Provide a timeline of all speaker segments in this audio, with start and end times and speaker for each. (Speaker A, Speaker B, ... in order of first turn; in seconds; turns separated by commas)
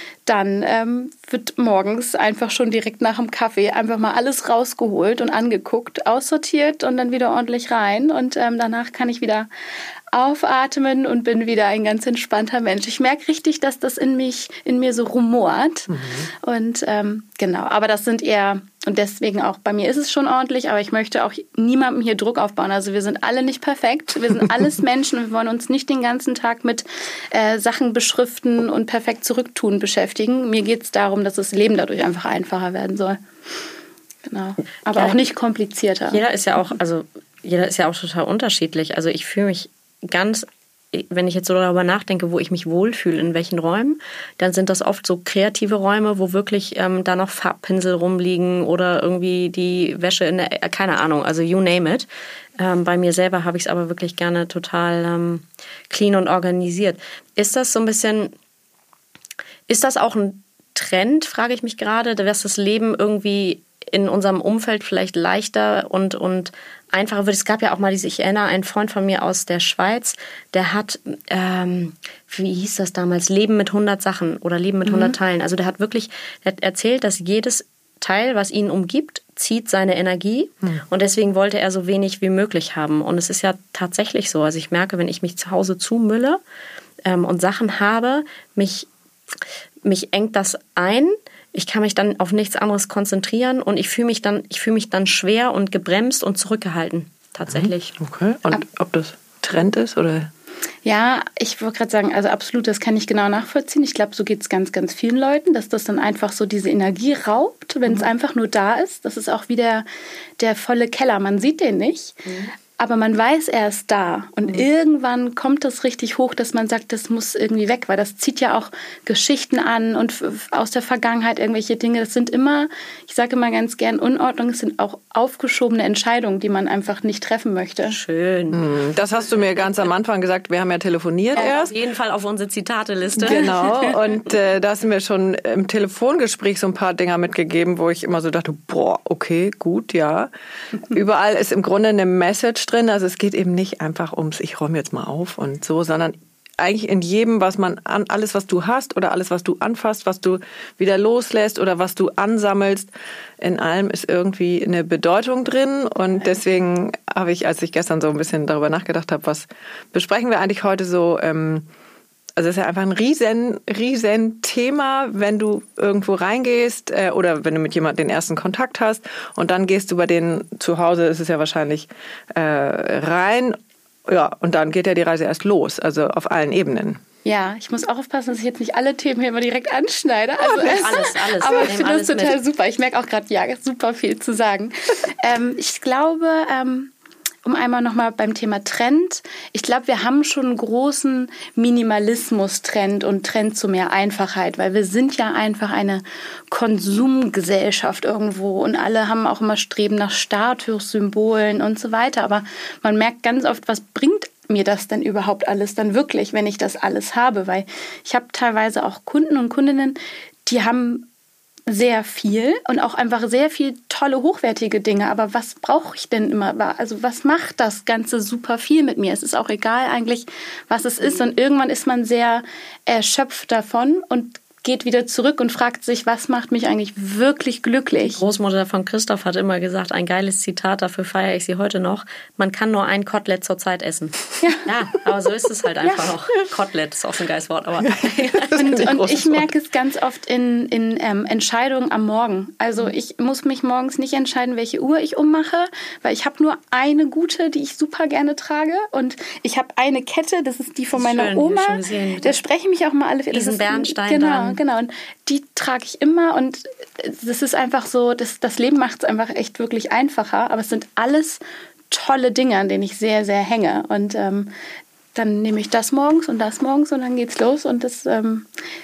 Speaker A: 0.3-9.5, Speaker A: 10.1-33.2, Speaker B: 15.9-16.3, Speaker A: 34.3-36.2, Speaker C: 34.9-35.2, Speaker C: 36.1-52.1, Speaker C: 52.6-58.3, Speaker C: 59.7-86.4, Speaker A: 74.9-75.2, Speaker C: 87.0-88.9, Speaker C: 89.8-98.0, Speaker B: 97.5-100.3, Speaker A: 100.8-109.9, Speaker A: 110.4-128.0, Speaker C: 127.9-128.6, Speaker B: 128.5-131.8, Speaker C: 131.4-133.5, Speaker B: 133.2-140.3, Speaker A: 133.3-133.9, Speaker B: 140.9-152.9, Speaker B: 153.4-161.7, Speaker B: 162.4-177.0, Speaker A: 177.2-186.9, Speaker C: 180.4-182.4, Speaker A: 187.4-211.1, Speaker A: 211.7-228.2, Speaker C: 228.0-238.6, Speaker B: 237.8-239.5, Speaker A: 238.5-261.4, Speaker C: 250.9-252.4, Speaker C: 253.3-254.6, Speaker A: 261.9-264.5, Speaker A: 265.1-268.5